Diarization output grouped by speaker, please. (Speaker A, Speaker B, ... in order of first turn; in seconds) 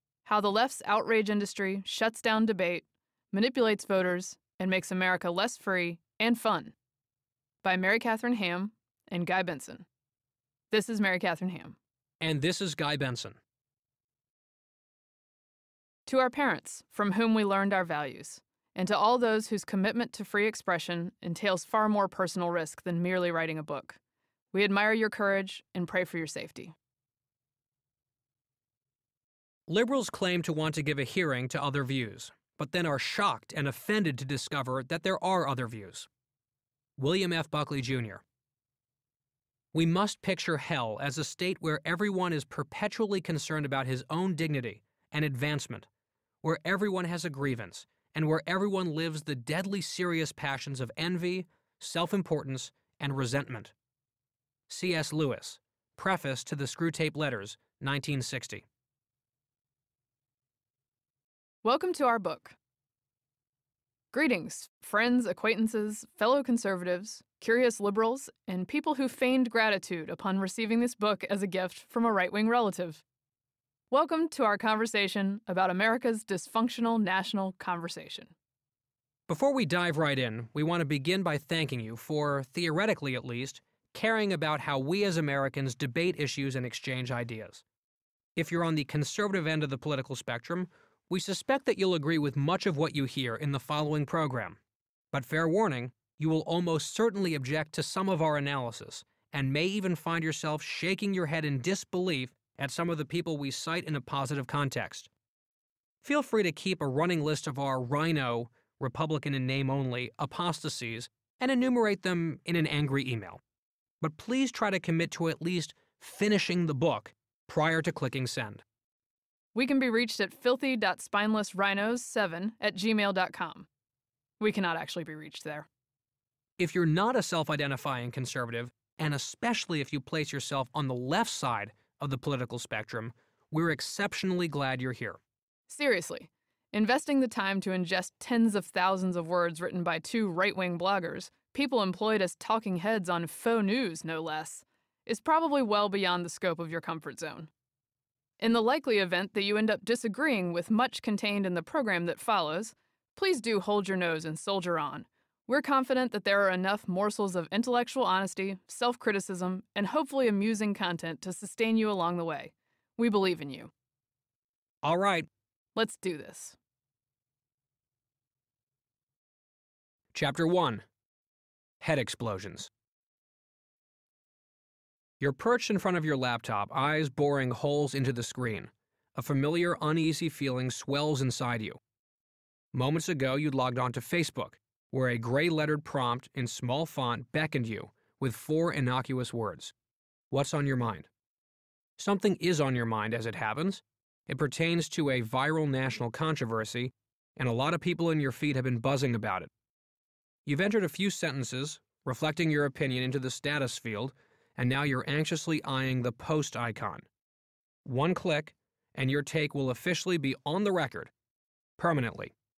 Speaker A: 0.2-6.7, 7.6-9.9, 10.7-11.8, 16.1-24.0, 24.5-26.8, 61.6-62.6, 64.1-73.0, 73.9-78.3, 119.5-123.7, 124.4-125.7, 135.7-147.5, 148.4-163.7, 165.8-166.6
Speaker B: 12.2-13.4, 29.7-36.1, 37.0-38.2, 39.7-45.9, 46.4-53.7, 54.7-58.6, 79.3-87.6, 88.4-94.6, 95.1-105.1, 106.0-113.4, 114.0-118.6, 126.6-135.2, 164.8-165.3, 170.1-170.8, 171.8-172.7, 175.2-181.8, 182.7-189.7, 190.3-191.1, 192.0-199.5, 200.5-207.1, 207.8-211.1, 211.8-212.3